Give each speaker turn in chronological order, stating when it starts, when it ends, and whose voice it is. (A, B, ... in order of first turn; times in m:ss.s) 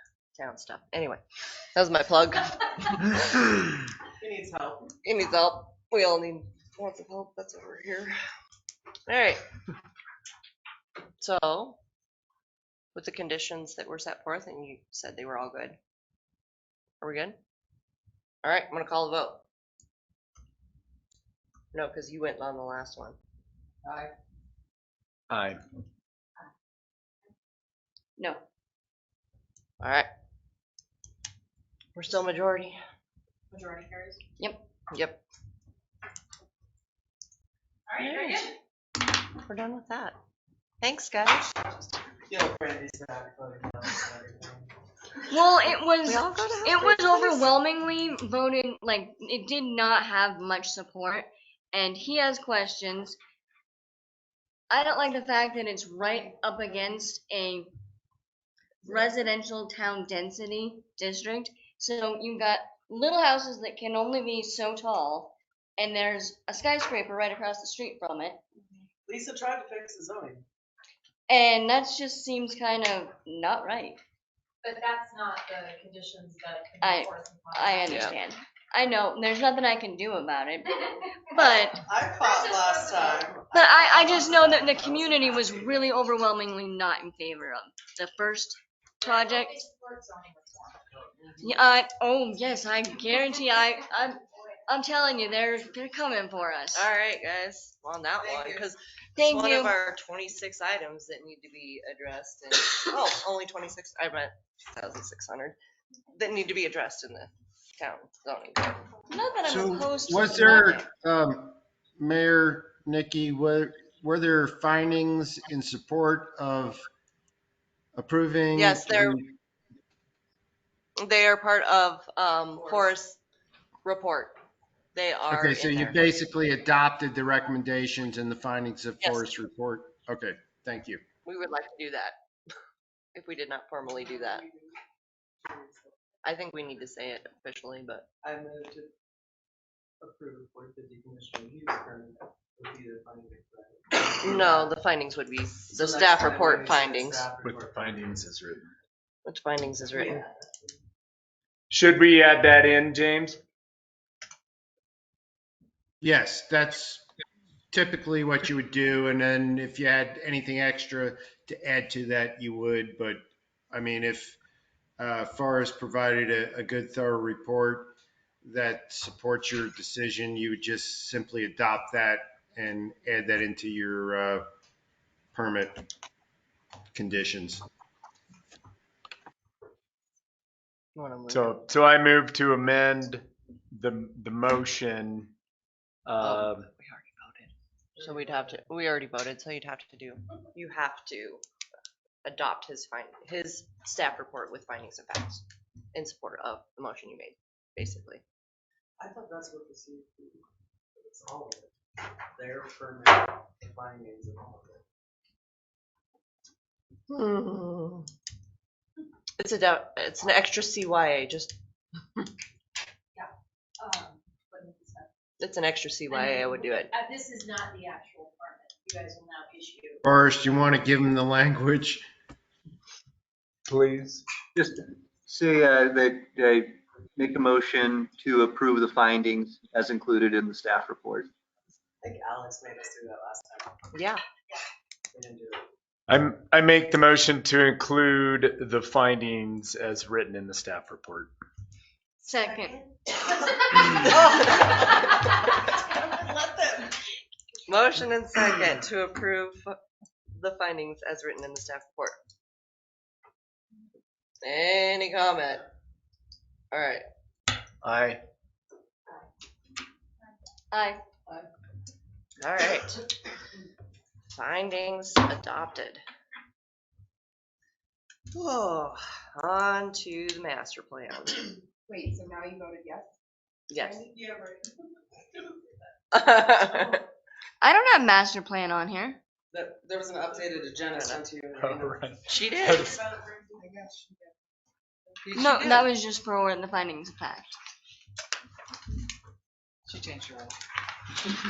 0:00.4-0:01.2 A
0:01.8-0:03.0 A
0:04.2-0:04.9 B
0:05.0-0:08.2 A
0:09.1-0:09.4 A
0:11.2-0:11.8 A
0:13.0-0:15.8 A
0:17.0-0:17.4 A
0:18.4-0:19.4 A
0:21.7-0:23.2 A
0:23.8-0:24.1 B
0:25.3-0:25.6 C
0:29.8-0:30.1 A
0:32.0-0:32.8 A
0:33.5-0:34.2 D
0:34.9-0:35.2 A
0:37.9-0:38.5 D
0:37.9-0:38.5 A
0:39.4-0:40.2 A
0:40.8-0:41.5 A
0:42.3-0:44.7 B
0:45.3-0:53.2 E
0:46.0-0:47.5 A
0:54.7-0:57.7 E
0:58.8-1:08.4 E
1:09.1-1:10.4 B
1:11.3-1:14.0 E
1:14.6-1:18.1 D
1:16.8-1:21.8 E
1:17.9-1:18.2 A
1:21.4-1:25.0 B
1:23.5-1:29.6 E
1:29.0-1:30.8 D
1:31.4-1:36.9 E
1:36.7-1:45.6 A
1:39.2-1:39.8 E
1:46.2-1:48.8 A
1:49.1-1:50.8 E
1:49.4-1:56.8 F
1:58.0-1:59.3 F
1:58.6-1:59.2 A
2:01.0-2:03.2 A
2:03.8-2:04.4 A
2:05.0-2:06.0 A
2:05.3-2:11.0 F
2:09.0-2:09.3 A
2:11.2-2:12.2 A
2:13.2-2:14.4 A
2:14.4-2:14.7 B
2:15.4-2:15.9 B
2:16.2-2:18.0 A
2:18.2-2:18.9 B
2:20.0-2:24.7 B
2:24.2-2:27.3 A
2:25.7-2:28.2 B
2:27.4-2:28.7 C
2:29.3-2:30.2 A
2:29.8-2:30.4 B
2:31.7-2:33.4 C
2:36.0-2:37.0 F
2:37.7-2:44.4 F
2:45.0-2:47.9 F
2:48.4-2:54.5 F
2:55.3-2:55.8 F
2:56.9-2:57.6 F
3:01.0-3:01.6 A
3:01.3-3:05.3 C
3:06.1-3:06.7 C
3:06.2-3:11.4 A
3:08.0-3:08.5 B
3:12.2-3:18.2 A
3:19.0-3:20.4 B
3:21.0-3:21.7 B
3:22.4-3:24.8 B
3:27.1-3:28.1 A
3:29.4-3:31.6 A
3:33.2-3:35.1 D
3:35.4-3:36.9 A
3:36.1-3:40.0 D
3:40.0-3:42.0 F
3:43.7-3:44.2 C
3:44.6-3:51.3 G
3:52.0-3:53.7 B
3:53.9-3:54.2 A
3:55.1-3:55.7 B
3:56.1-4:01.3 C
4:02.2-4:02.8 E
4:04.1-4:04.5 B
4:04.2-4:04.5 A
4:06.1-4:06.9 B
4:07.7-4:09.8 A
4:10.4-4:12.2 A
4:14.4-4:15.6 A
4:16.7-4:17.0 A
4:17.8-4:18.2 C
4:20.7-4:21.0 E
4:22.4-4:23.0 A
4:24.3-4:26.0 A
4:28.3-4:31.5 A
4:31.9-4:33.1 D
4:33.7-4:34.1 A
4:34.2-4:34.6 B
4:36.1-4:37.0 A
4:37.6-4:39.2 E
4:39.5-4:42.0 B
4:40.9-4:41.2 A
4:41.6-4:43.0 C
4:42.3-4:42.9 A
4:42.7-4:43.9 B
4:45.2-4:45.9 B
4:45.3-4:47.6 E
4:49.9-4:50.6 B